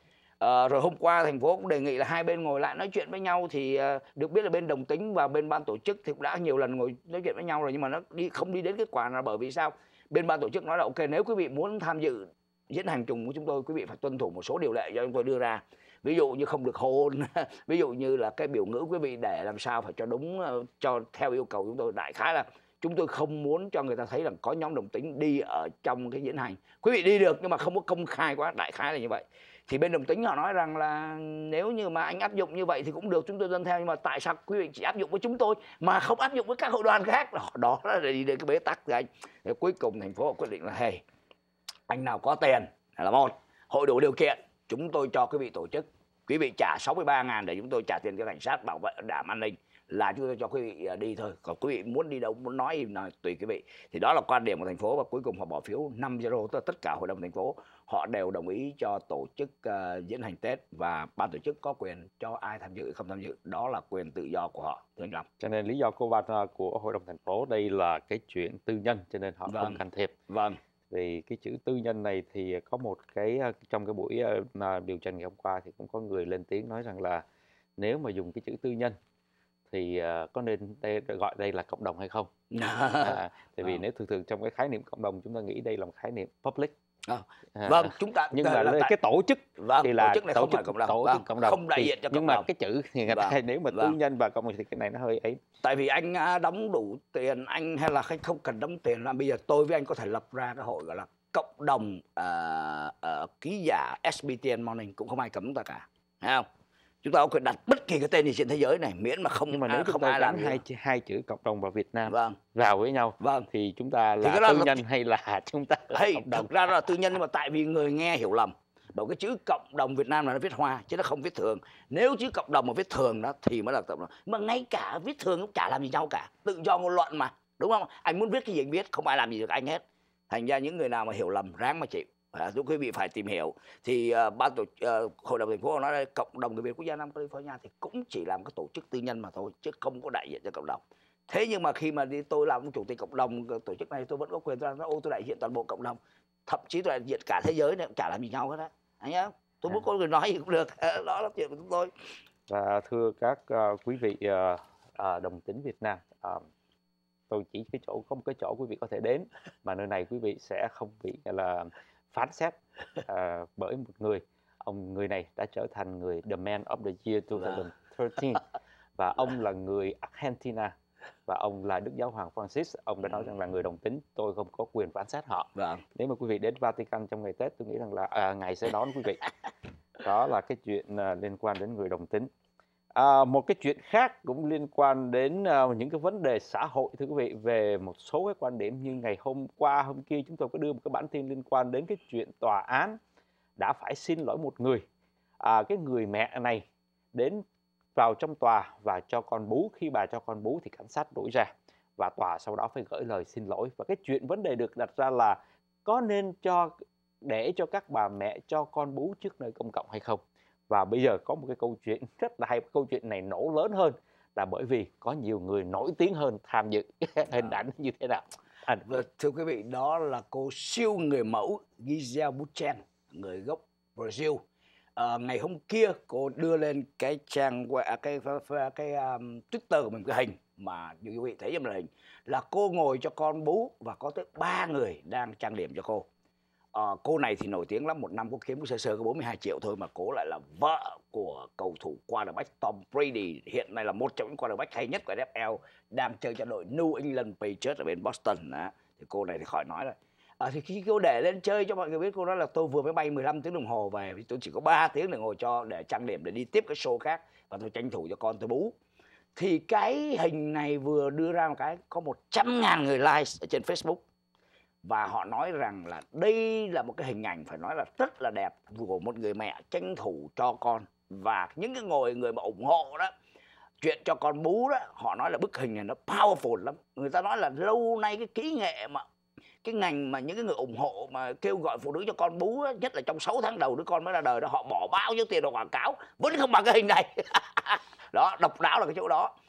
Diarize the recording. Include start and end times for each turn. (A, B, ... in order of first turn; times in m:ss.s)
0:00.4-0:41.0 A
0:41.9-1:05.3 A
1:05.4-1:10.1 B
1:09.5-1:10.6 A
1:10.9-1:17.2 B
1:17.8-1:19.0 B
1:19.7-1:22.3 B
1:22.5-1:23.8 A
1:23.0-1:26.7 B
1:27.1-1:28.9 A
1:27.6-1:35.4 B
1:29.6-1:32.5 A
1:33.1-1:34.0 A
1:35.6-1:46.4 A
1:47.0-1:50.6 A
1:49.5-1:56.7 B
1:52.1-1:52.4 A
1:53.2-1:53.5 A
1:54.2-1:54.8 A
1:55.9-2:31.9 A
2:32.5-2:36.4 B
2:37.3-2:48.4 B
2:49.0-2:50.7 B
2:51.3-2:59.2 B
2:55.6-2:55.8 A
3:00.0-3:02.3 B
3:03.0-3:13.0 B
3:13.6-3:14.8 B
3:15.4-3:17.4 B
3:18.0-3:39.0 B
3:38.9-3:44.4 A
3:45.0-3:56.0 A
3:56.7-4:18.8 A
4:19.4-4:24.0 A
4:24.8-4:33.1 A
4:33.8-4:39.0 A
4:39.6-4:49.3 A